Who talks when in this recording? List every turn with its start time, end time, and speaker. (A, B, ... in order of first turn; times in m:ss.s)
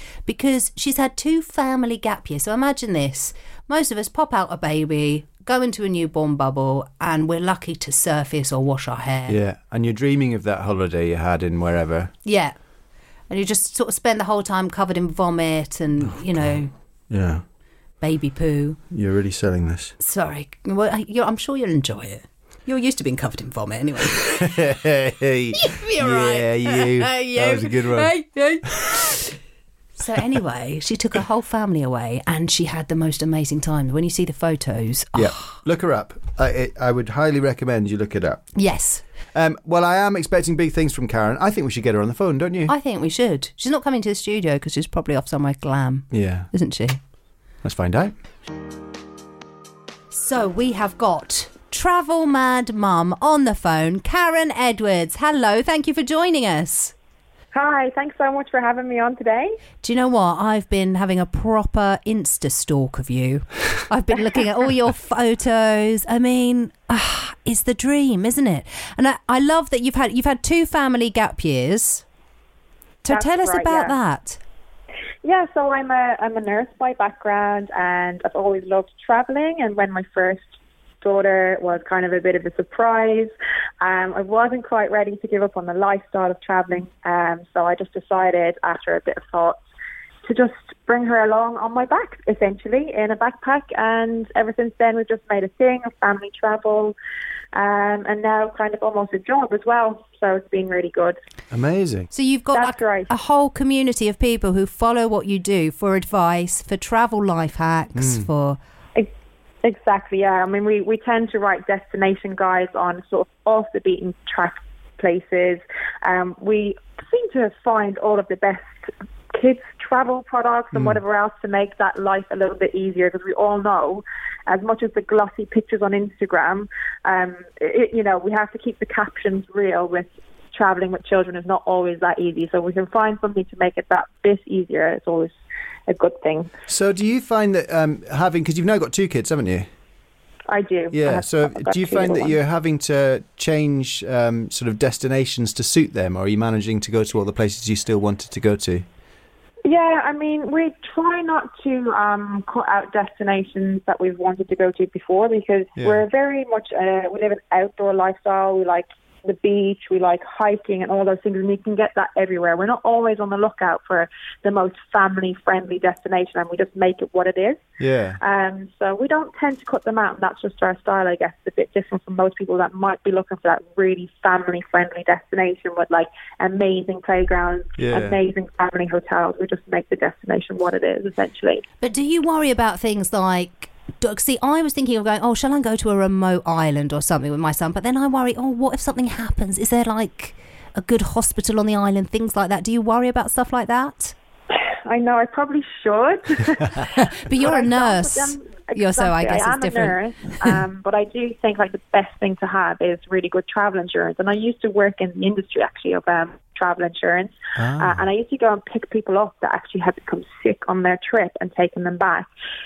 0:00.2-0:09.4 A
0:09.3-0:12.1 B
0:12.2-0:12.5 A
0:13.3-0:16.7 A
0:16.0-0:17.4 B
0:18.0-0:18.8 A
0:18.9-0:20.0 B
0:20.0-0:24.6 A
0:24.1-0:28.1 B
0:25.5-0:29.3 A
0:28.6-0:29.0 B
0:30.0-0:35.5 A
0:35.1-0:38.5 B
0:38.5-0:39.0 A
0:39.3-0:42.7 B
0:42.7-0:47.0 A
0:46.1-0:46.5 B
0:47.6-0:48.1 B
0:50.1-0:56.9 A
0:57.5-0:59.6 C
0:59.8-1:12.0 A
1:13.0-1:14.4 A
1:13.1-1:13.9 C
1:15.2-1:29.6 C
1:30.2-1:36.9 C
1:37.5-1:41.2 C
1:41.5-1:42.1 B
1:42.1-1:48.6 A
1:42.5-1:43.1 C
1:47.9-1:48.3 B
1:49.6-2:15.3 C
2:00.7-2:01.0 B
2:15.9-2:16.5 C
2:16.7-2:19.7 B
2:20.5-2:22.3 C
2:20.9-2:28.8 B
2:29.6-2:47.6 C
2:35.8-2:36.0 B
2:47.8-2:48.2 B
2:48.2-3:01.6 C
2:57.8-2:58.2 B
3:01.8-3:14.1 A
3:14.8-3:32.2 C
3:17.0-3:20.0 A
3:27.6-3:28.1 B